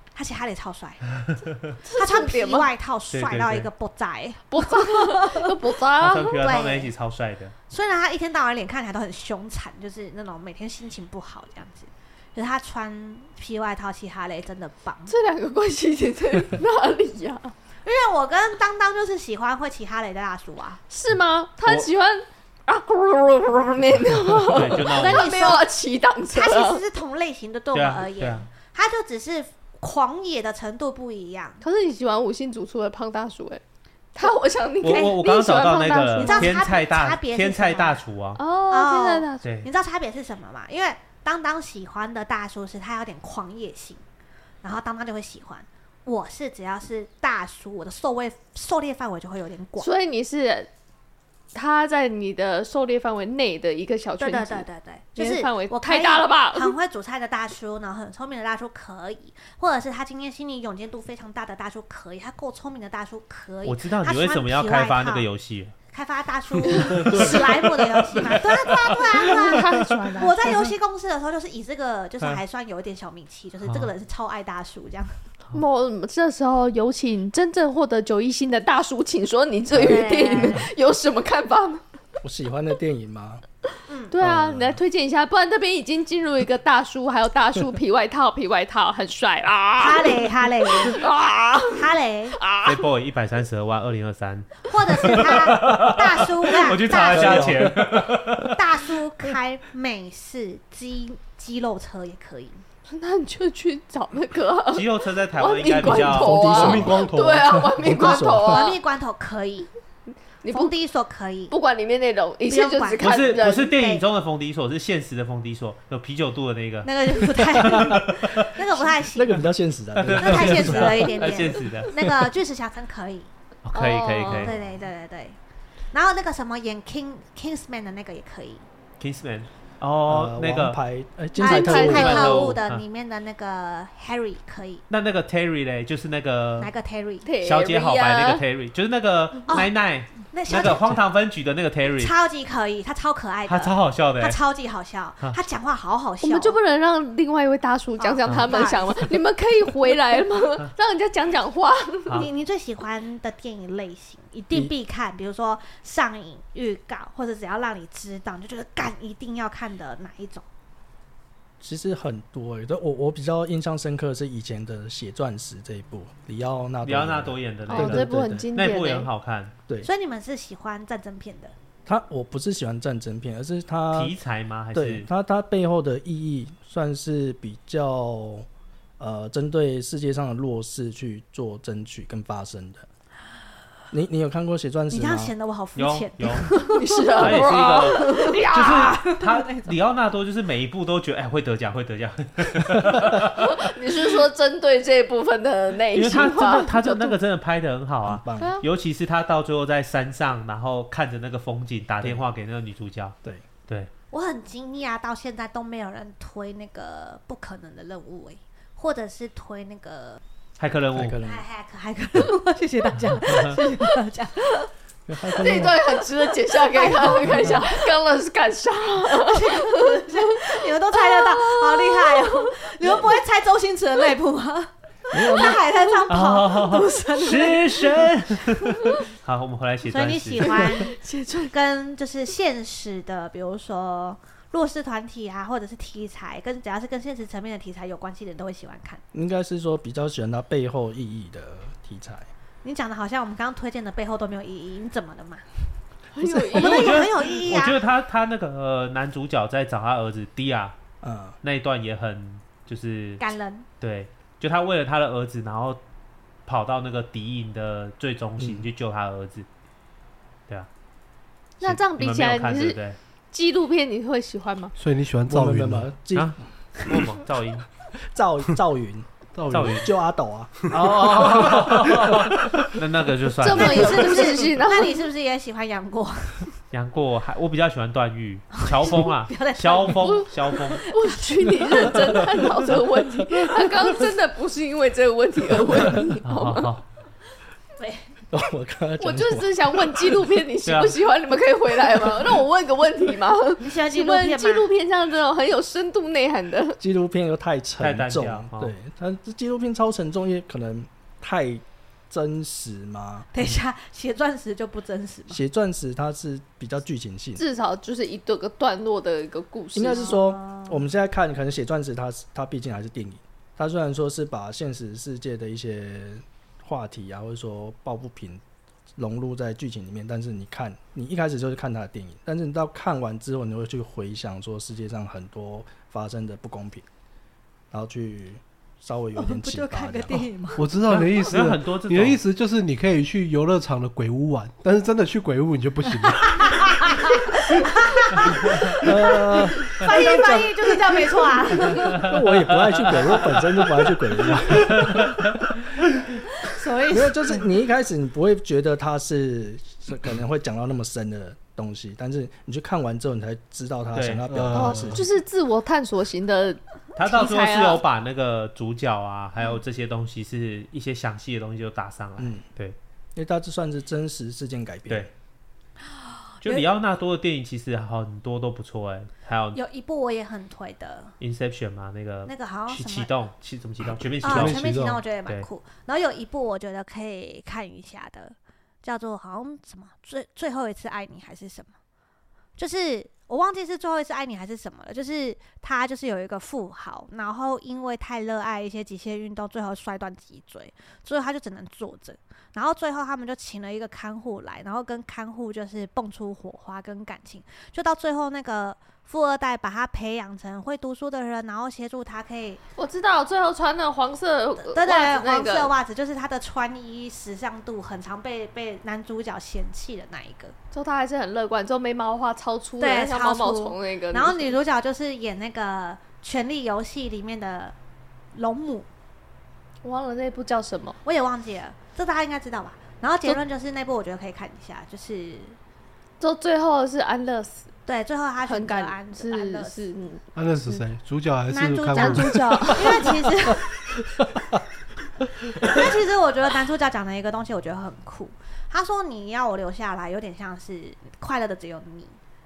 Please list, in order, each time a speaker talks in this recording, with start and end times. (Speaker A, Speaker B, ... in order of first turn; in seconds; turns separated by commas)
Speaker A: 0.1-1.0, Speaker B: 1.1-1.8, Speaker C: 1.9-2.7, Speaker A: 1.9-5.5, Speaker B: 3.1-3.7, Speaker C: 4.5-6.5, Speaker B: 6.0-7.5, Speaker A: 6.4-6.9, Speaker A: 7.7-15.1, Speaker C: 15.1-17.5, Speaker A: 17.8-20.8, Speaker C: 20.9-26.8, Speaker B: 24.4-25.3, Speaker A: 24.9-25.7, Speaker A: 26.3-31.6, Speaker B: 27.7-28.5, Speaker C: 31.6-33.6, Speaker C: 34.1-36.6, Speaker B: 34.8-38.4, Speaker A: 34.9-35.1, Speaker A: 36.2-38.0, Speaker C: 38.4-39.5, Speaker A: 38.7-44.0, Speaker B: 39.4-39.7, Speaker A: 44.6-49.9, Speaker C: 49.8-50.7, Speaker C: 51.5-56.7, Speaker A: 54.2-65.3, Speaker B: 63.6-65.7, Speaker A: 65.9-75.1, Speaker B: 67.0-67.7, Speaker B: 68.3-70.0, Speaker C: 68.9-70.7, Speaker C: 75.5-81.8, Speaker A: 79.7-80.7, Speaker D: 82.2-83.4, Speaker A: 83.9-84.1, Speaker C: 84.1-92.8, Speaker D: 84.2-84.8, Speaker A: 89.8-91.0, Speaker A: 91.7-92.4, Speaker B: 92.6-98.6, Speaker A: 94.7-97.7, Speaker D: 97.1-97.8, Speaker A: 98.5-102.6, Speaker C: 102.9-108.8, Speaker B: 104.7-106.5, Speaker D: 105.8-108.7, Speaker E: 106.4-107.7, Speaker A: 108.0-109.7, Speaker C: 110.4-110.7, Speaker A: 110.5-111.5, Speaker C: 111.5-113.7, Speaker A: 112.5-114.0, Speaker B: 113.0-118.5, Speaker A: 116.8-119.4, Speaker D: 119.0-121.1, Speaker B: 119.9-121.9, Speaker A: 120.2-123.3, Speaker B: 123.6-124.5, Speaker C: 123.7-124.5, Speaker A: 124.3-125.4, Speaker A: 125.9-128.6, Speaker B: 129.0-130.8, Speaker D: 130.1-132.5, Speaker A: 131.4-134.8, Speaker C: 131.4-132.6, Speaker B: 131.7-132.8, Speaker B: 134.9-136.7, Speaker A: 136.6-137.3, Speaker C: 137.2-138.4, Speaker B: 137.4-142.1, Speaker A: 139.5-141.0, Speaker A: 142.0-146.6, Speaker B: 143.5-144.4, Speaker C: 146.2-152.2, Speaker A: 148.0-149.1, Speaker B: 148.2-148.5, Speaker A: 152.1-160.4, Speaker D: 161.6-168.5, Speaker B: 166.8-169.5, Speaker C: 167.7-169.1, Speaker A: 169.8-171.5, Speaker D: 171.8-174.2, Speaker B: 173.9-175.1, Speaker D: 174.7-178.5, Speaker D: 179.0-182.9, Speaker D: 183.9-185.3, Speaker A: 184.9-189.7, Speaker B: 185.8-186.5, Speaker C: 186.6-188.7, Speaker B: 187.2-193.6, Speaker C: 193.3-197.2, Speaker B: 195.9-203.2, Speaker D: 198.1-198.6, Speaker A: 204.1-210.2, Speaker B: 210.6-211.2, Speaker D: 210.9-211.4, Speaker A: 211.2-214.7, Speaker B: 213.3-213.6, Speaker D: 215.1-216.1, Speaker C: 215.3-223.1, Speaker A: 216.5-217.7, Speaker A: 219.2-227.9, Speaker D: 225.1-225.6, Speaker B: 226.1-230.6, Speaker C: 227.0-227.4, Speaker A: 229.9-239.0, Speaker C: 230.4-231.5, Speaker D: 239.1-242.3, Speaker A: 242.6-245.4, Speaker C: 246.1-247.1, Speaker D: 246.2-246.6, Speaker A: 246.4-247.8, Speaker B: 246.5-250.7, Speaker D: 251.0-251.4, Speaker B: 251.4-253.2, Speaker A: 253.2-253.7, Speaker B: 253.8-255.8, Speaker B: 256.4-259.5, Speaker D: 258.4-258.6, Speaker C: 261.6-262.8, Speaker B: 261.6-263.0, Speaker C: 263.3-264.7, Speaker E: 264.8-265.9, Speaker D: 265.2-266.4, Speaker B: 266.1-267.7, Speaker D: 268.1-269.1, Speaker E: 269.3-269.9, Speaker B: 269.5-269.9, Speaker D: 269.6-271.9, Speaker B: 270.7-274.3, Speaker E: 270.8-272.2, Speaker C: 273.4-275.0, Speaker A: 273.5-276.5, Speaker B: 276.7-280.9, Speaker A: 278.6-282.0, Speaker C: 280.0-286.7, Speaker B: 286.2-286.8, Speaker A: 287.8-288.1, Speaker D: 288.3-290.2, Speaker C: 289.0-296.8, Speaker B: 290.6-291.0, Speaker A: 293.6-294.7, Speaker D: 296.8-303.3, Speaker B: 297.8-298.7, Speaker A: 303.3-305.4, Speaker D: 305.3-307.4, Speaker C: 307.4-310.1, Speaker D: 309.7-318.4, Speaker A: 309.9-310.8, Speaker D: 318.9-326.9, Speaker D: 327.7-330.3, Speaker A: 329.1-330.6, Speaker E: 330.6-336.8, Speaker B: 330.9-332.2, Speaker A: 336.4-342.0, Speaker D: 338.2-345.3, Speaker B: 342.1-343.4, Speaker B: 344.7-345.5, Speaker A: 346.4-347.4, Speaker D: 346.9-355.1, Speaker B: 353.9-354.2, Speaker E: 354.3-355.1, Speaker C: 354.5-357.8, Speaker B: 356.9-362.8, Speaker D: 362.2-362.4, Speaker D: 363.1-365.1, Speaker B: 366.4-369.6, Speaker A: 369.5-371.1, Speaker B: 371.2-374.6, Speaker A: 372.3-373.1, Speaker A: 374.2-381.7, Speaker E: 374.2-375.0, Speaker A: 382.6-402.6, Speaker C: 402.8-405.7, Speaker A: 404.6-410.5, Speaker C: 410.7-414.6, Speaker A: 412.8-417.8, Speaker A: 418.3-418.9, Speaker C: 419.8-421.0, Speaker A: 421.0-425.6, Speaker C: 426.2-427.7, Speaker A: 427.9-429.9, Speaker C: 428.4-430.8, Speaker E: 430.3-433.2, Speaker A: 431.5-433.7, Speaker C: 431.9-433.2, Speaker A: 435.5-442.2